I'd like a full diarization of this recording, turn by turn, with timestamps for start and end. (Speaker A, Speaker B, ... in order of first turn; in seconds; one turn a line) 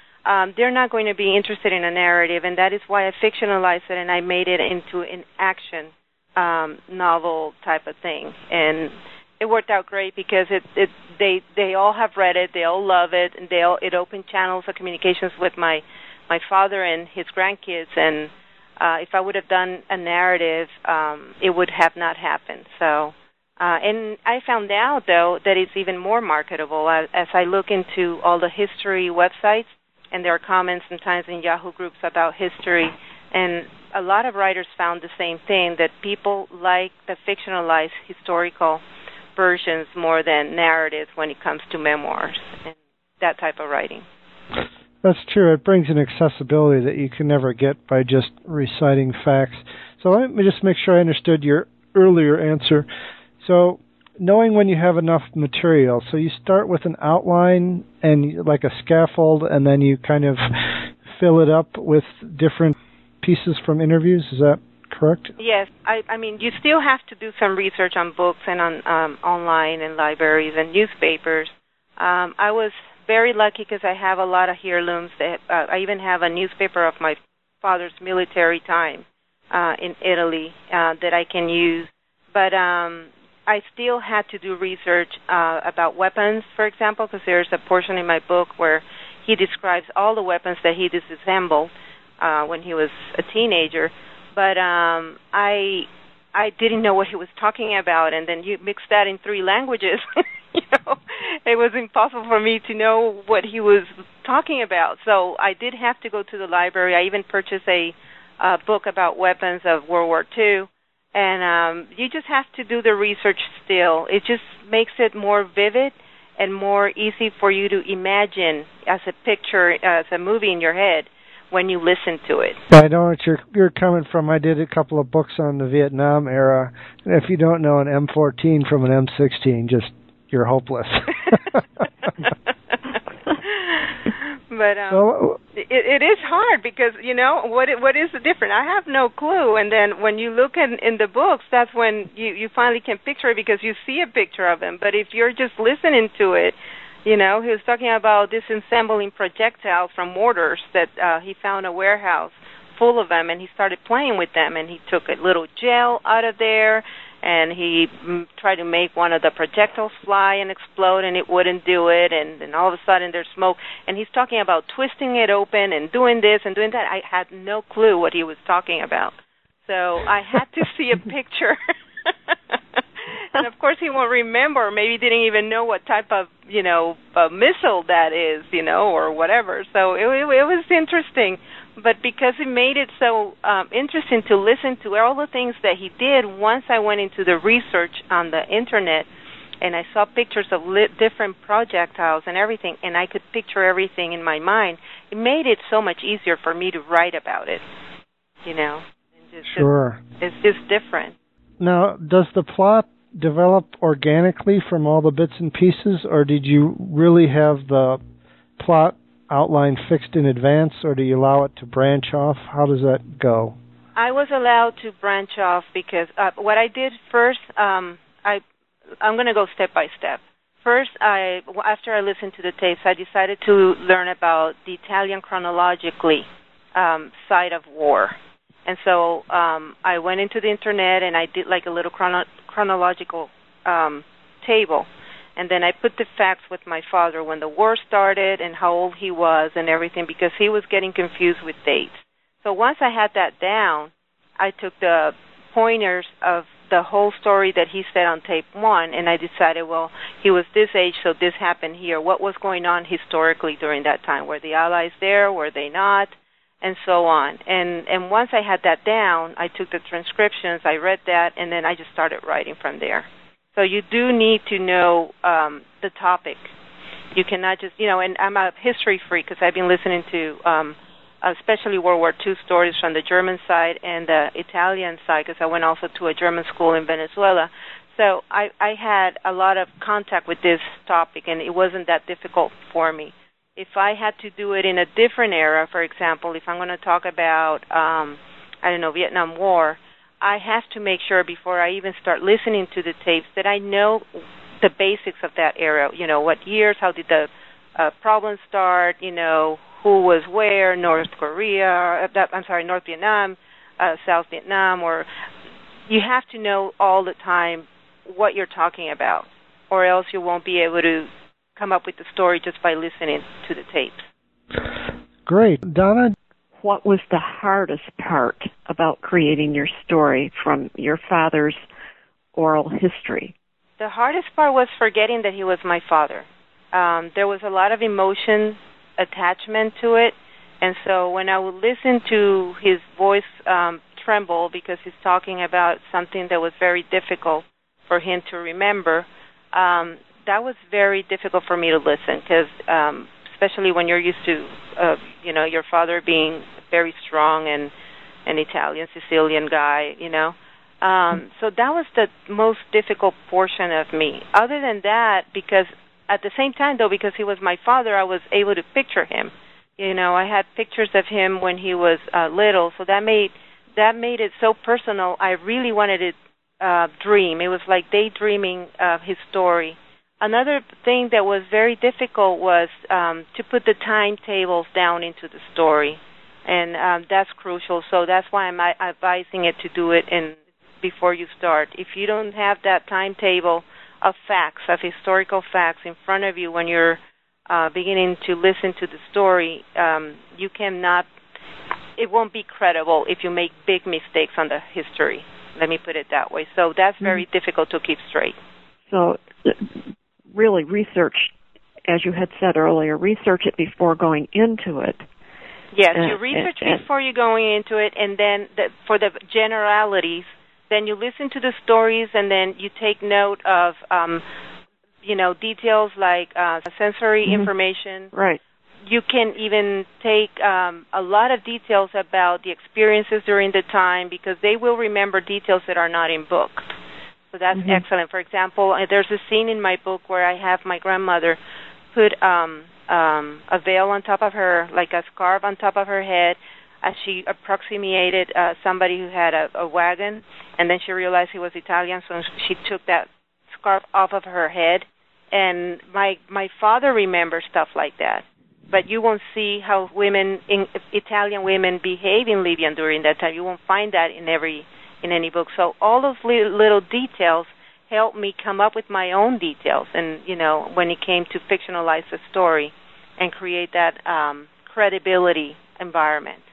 Speaker A: 0.2-38.8
Speaker A: 39.4-44.0
Speaker B: 45.0-52.9
Speaker B: 53.4-65.3
Speaker A: 65.4-122.6
Speaker B: 122.7-131.6
Speaker A: 133.4-135.0
Speaker B: 134.9-135.4
Speaker A: 135.5-169.1
Speaker A: 169.7-189.1
Speaker A: 189.6-197.6
Speaker A: 198.4-201.2
Speaker B: 199.5-200.0
Speaker B: 201.6-208.0
Speaker B: 208.6-213.6
Speaker A: 213.9-218.4
Speaker A: 219.0-266.5
Speaker A: 267.1-294.1
Speaker A: 294.6-305.1
Speaker A: 305.9-314.1
Speaker B: 315.2-316.1
Speaker C: 316.6-321.6
Speaker C: 322.3-323.3
Speaker A: 323.8-347.7
Speaker A: 348.2-391.1
Speaker A: 392.0-398.4
Speaker C: 398.9-401.3
Speaker C: 401.9-405.0
Speaker A: 405.7-414.2
Speaker C: 405.9-406.8
Speaker A: 415.0-418.1
Speaker C: 418.1-418.4
Speaker A: 418.9-426.8
Speaker A: 427.3-431.4
Speaker C: 427.5-427.8
Speaker A: 431.9-466.4